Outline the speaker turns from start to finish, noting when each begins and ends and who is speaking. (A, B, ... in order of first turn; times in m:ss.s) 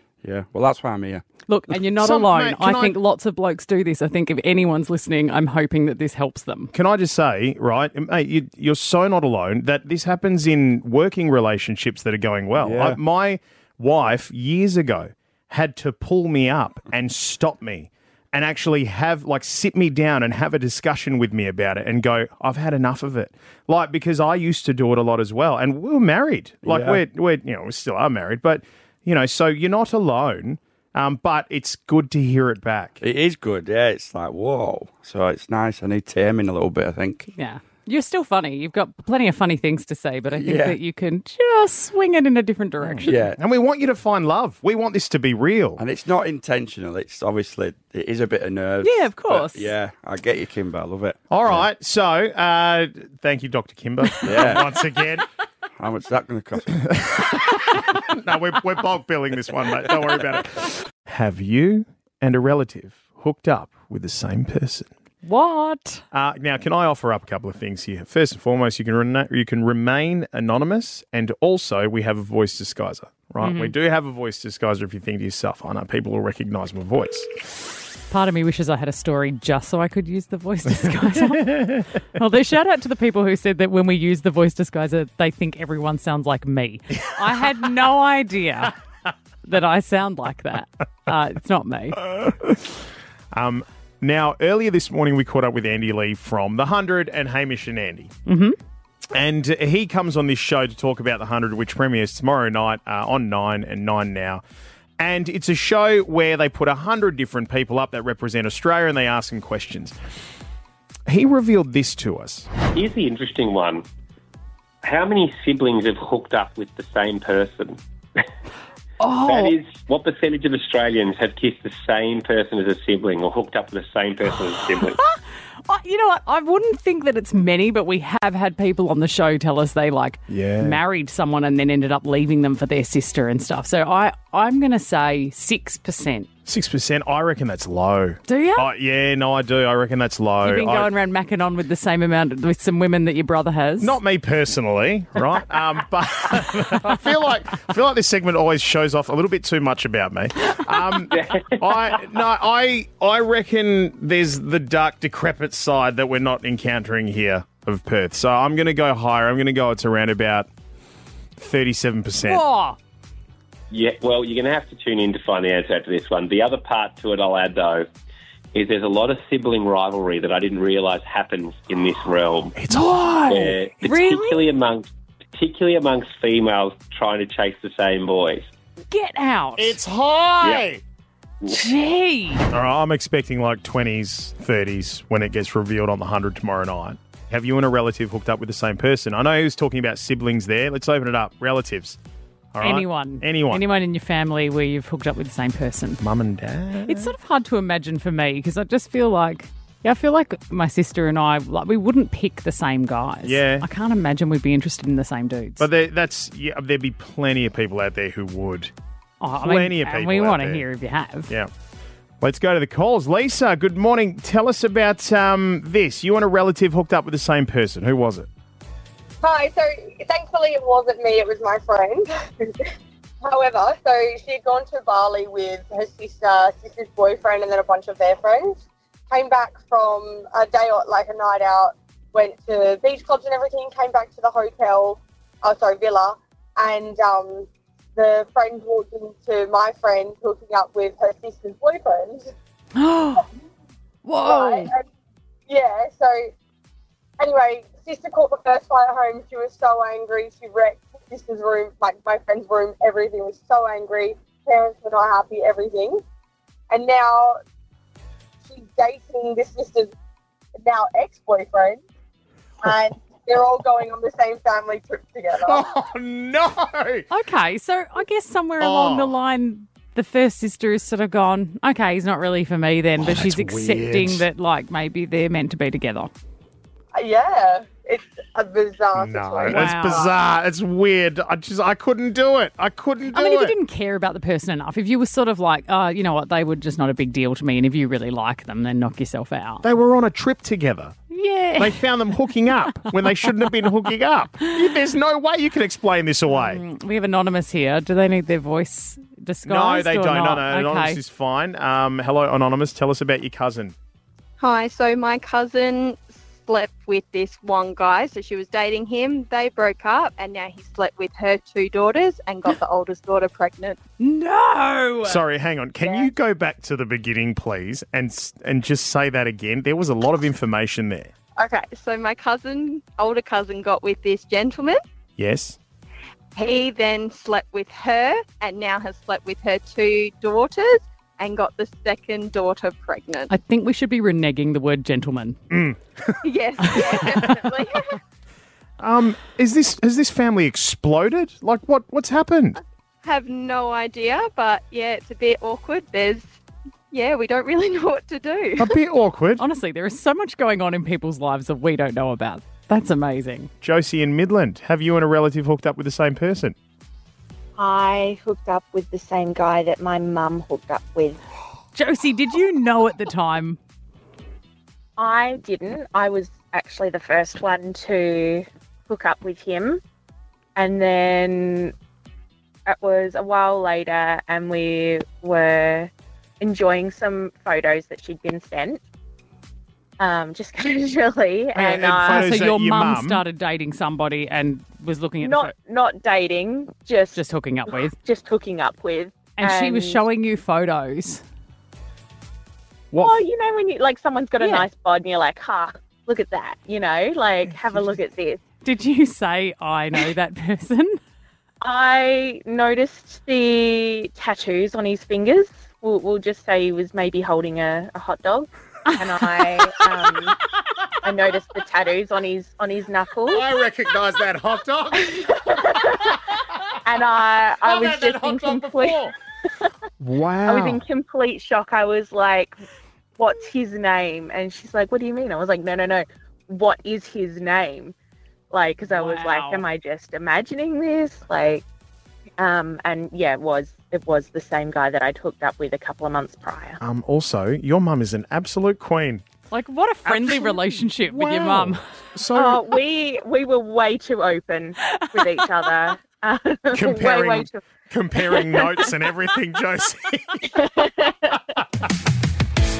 0:00.2-0:01.2 A
0:01.5-0:06.7 B
0:02.0-0:03.0 C
0:06.7-0:33.0 C
0:12.6-0:13.0 A
0:26.6-0:27.0 A
0:33.0-0:37.3 A
0:37.4-0:43.3 B
0:40.3-0:40.8 A
0:43.0-0:43.4 A
0:43.4-0:45.8 C
0:45.8-0:51.6 A
0:48.8-0:49.7 B
0:51.3-0:55.3 C
0:54.2-0:54.7 A
0:55.8-0:56.8 A
0:56.8-1:04.9 C
1:05.2-1:06.0 B
1:06.1-1:17.3 C
1:13.4-1:13.7 B
1:18.1-1:28.7 B
1:21.1-1:21.8 C
1:29.5-1:32.0 B
1:32.0-1:32.6 C
1:33.3-1:38.1 C
1:38.3-1:38.6 B
1:39.1-1:44.4 C
1:45.0-1:50.0 C
1:51.1-1:52.5 C
1:52.7-1:53.8 D
1:54.8-1:57.8 D
1:59.0-1:59.6 B
1:59.2-2:05.0 D
2:04.7-2:05.2 B
2:05.7-2:16.3 B
2:10.3-2:10.8 C
2:16.5-2:20.9 C
2:18.3-2:18.7 B
2:20.4-2:24.0 B
2:23.8-2:40.5 C
2:41.4-2:42.4 C
2:42.2-2:42.8 B
2:43.7-2:47.9 D
2:48.5-2:52.6 D
2:52.6-2:53.6 C
2:52.7-2:54.4 B
2:53.3-2:58.5 D
2:58.9-2:59.8 B
2:59.6-3:00.8 C
3:00.4-3:00.7 D
3:01.5-3:02.5 B
3:02.5-3:12.0 C
3:12.5-3:13.6 C
3:12.6-3:16.0 B
3:16.0-3:17.1 C
3:16.9-3:25.7 B
3:23.2-3:23.6 C
3:25.6-3:28.7 C
3:29.2-3:31.3 B
3:29.4-3:30.6 C
3:32.2-3:38.3 C
3:39.2-3:42.5 E
3:43.2-4:02.3 E
4:02.8-4:03.2 B
4:04.0-4:04.7 B
4:04.2-4:04.8 E
4:05.5-4:06.3 E
4:07.2-4:16.0 E
4:16.7-4:17.4 E
4:18.5-4:19.9 E
4:20.6-4:21.8 E
4:22.6-4:25.7 E
4:25.4-4:27.1 C
4:27.1-4:36.1 B
4:28.6-4:29.1 C
4:33.0-4:34.2 C
4:36.9-4:40.1 E
4:39.0-4:43.6 C
4:39.5-4:40.1 B
4:43.1-4:49.7 B
4:49.6-4:51.0 C
4:51.1-4:51.8 B
4:51.6-4:56.6 C
4:56.3-5:01.0 B
4:59.4-5:03.8 C
5:04.4-5:13.8 F
5:14.0-5:15.2 B
5:15.0-5:21.1 C
5:15.8-5:16.1 F
5:21.4-5:24.8 F
5:25.2-5:25.6 C
5:26.4-5:33.3 F
5:33.3-5:35.4 B
5:35.5-5:37.8 C
5:36.2-5:38.0 F
5:36.7-5:37.3 B
5:38.8-5:42.6 C
5:43.0-5:46.3 F
5:46.9-5:48.8 F
5:48.6-5:49.4 C
5:49.4-5:53.5 B
5:53.6-5:56.6 C
5:57.6-6:01.2 G
6:01.8-6:03.6 B
6:05.0-6:09.8 G
6:10.6-6:11.7 G
6:12.7-6:18.8 G
6:20.0-6:22.3 G
6:21.5-6:23.2 C
6:22.0-6:25.5 B
6:25.2-6:27.2 G
6:27.1-6:28.0 B
6:27.8-6:30.0 G
6:29.4-6:31.2 B
6:32.9-6:33.2 C
6:33.0-6:38.4 G
6:34.4-6:34.7 B
6:37.5-6:38.0 C
6:38.6-6:41.0 B
6:41.6-6:50.4 G
6:51.0-6:53.5 G
6:53.3-6:55.2 C
6:55.0-6:56.2 G
6:56.0-6:56.8 C
6:56.8-6:59.1 G
6:57.6-6:59.1 C
7:00.0-7:00.8 C
7:00.4-7:02.6 G
7:03.2-7:08.0 G
7:08.5-7:11.6 G
7:08.9-7:09.6 B
7:12.4-7:16.8 G
7:16.8-7:19.2 C
7:19.5-7:21.8 B
7:20.1-7:20.4 C
7:21.0-7:22.7 C
7:22.4-7:27.6 G
7:25.0-7:25.2 B
7:26.7-7:30.6 C
7:28.3-7:28.6 B
7:30.8-7:31.4 G